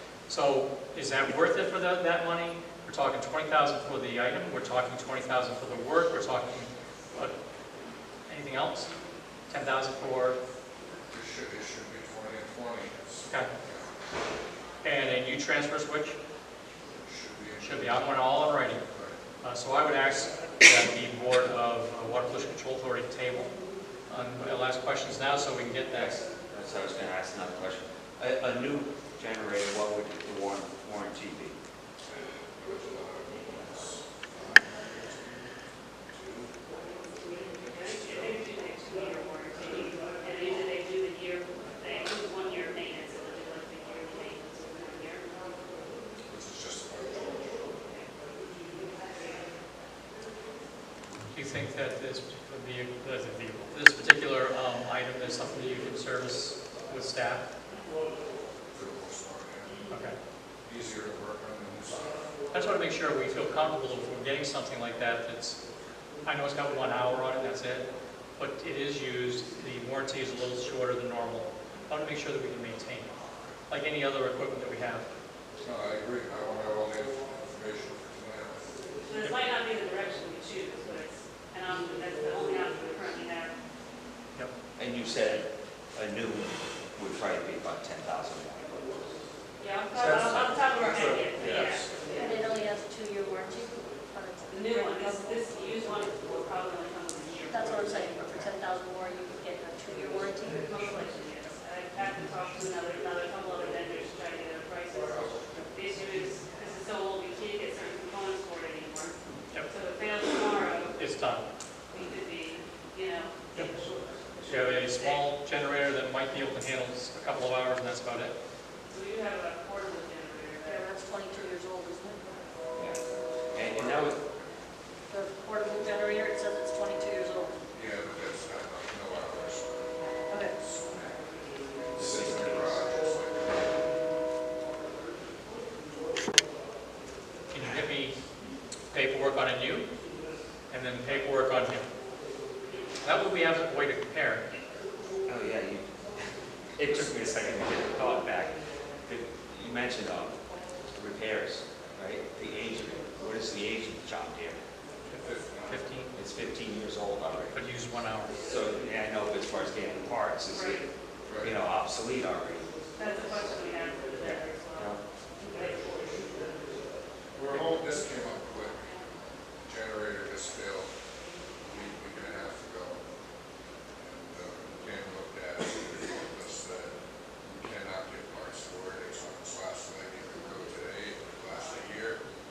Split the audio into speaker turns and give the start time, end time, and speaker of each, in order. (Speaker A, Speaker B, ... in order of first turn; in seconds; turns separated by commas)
Speaker A: 0.3-7.3, Speaker A: 8.3-8.9, Speaker A: 9.5-10.4, Speaker B: 11.1-13.9, Speaker A: 14.8-16.2, Speaker B: 17.0-18.0, Speaker A: 17.6-18.8, Speaker B: 18.9-19.2, Speaker A: 19.4-23.5, Speaker A: 24.1-26.2, Speaker C: 25.9-31.6, Speaker B: 32.1-35.5, Speaker B: 36.1-36.6, Speaker B: 37.2-38.4, Speaker D: 37.7-45.3, Speaker B: 46.3-47.7, Speaker A: 51.3-57.5, Speaker B: 58.7-59.9, Speaker A: 59.9-60.2, Speaker B: 60.6-62.3, Speaker A: 62.5-65.6, Speaker A: 66.2-73.1, Speaker A: 73.7-75.1, Speaker B: 75.6-78.7, Speaker D: 79.0-83.5, Speaker C: 84.8-89.0, Speaker D: 89.6-92.4, Speaker A: 90.1-90.4, Speaker C: 91.4-91.8, Speaker E: 92.1-95.4, Speaker D: 94.5-98.2, Speaker E: 97.5-100.7, Speaker D: 100.5-111.0, Speaker A: 111.0-111.5, Speaker D: 111.9-115.3, Speaker A: 114.5-118.4, Speaker D: 118.9-120.8, Speaker E: 120.6-122.4, Speaker C: 122.8-123.0, Speaker C: 123.5-124.2, Speaker B: 123.6-124.5, Speaker E: 125.1-127.6, Speaker B: 127.7-131.2, Speaker E: 130.3-130.6, Speaker B: 131.9-133.9, Speaker C: 132.0-132.9, Speaker A: 137.5-138.2, Speaker A: 138.9-139.9, Speaker A: 140.7-141.9, Speaker A: 143.0-144.5, Speaker C: 145.3-145.9, Speaker C: 146.8-150.4, Speaker C: 150.9-154.6, Speaker B: 155.1-155.8, Speaker A: 155.1-156.1, Speaker C: 156.1-157.6, Speaker A: 157.5-158.4, Speaker C: 158.4-160.9, Speaker D: 160.5-160.9, Speaker B: 161.2-161.6, Speaker C: 161.4-162.7, Speaker D: 162.9-165.8, Speaker C: 164.2-165.0, Speaker B: 167.3-170.9, Speaker B: 171.7-173.0, Speaker B: 174.0-182.2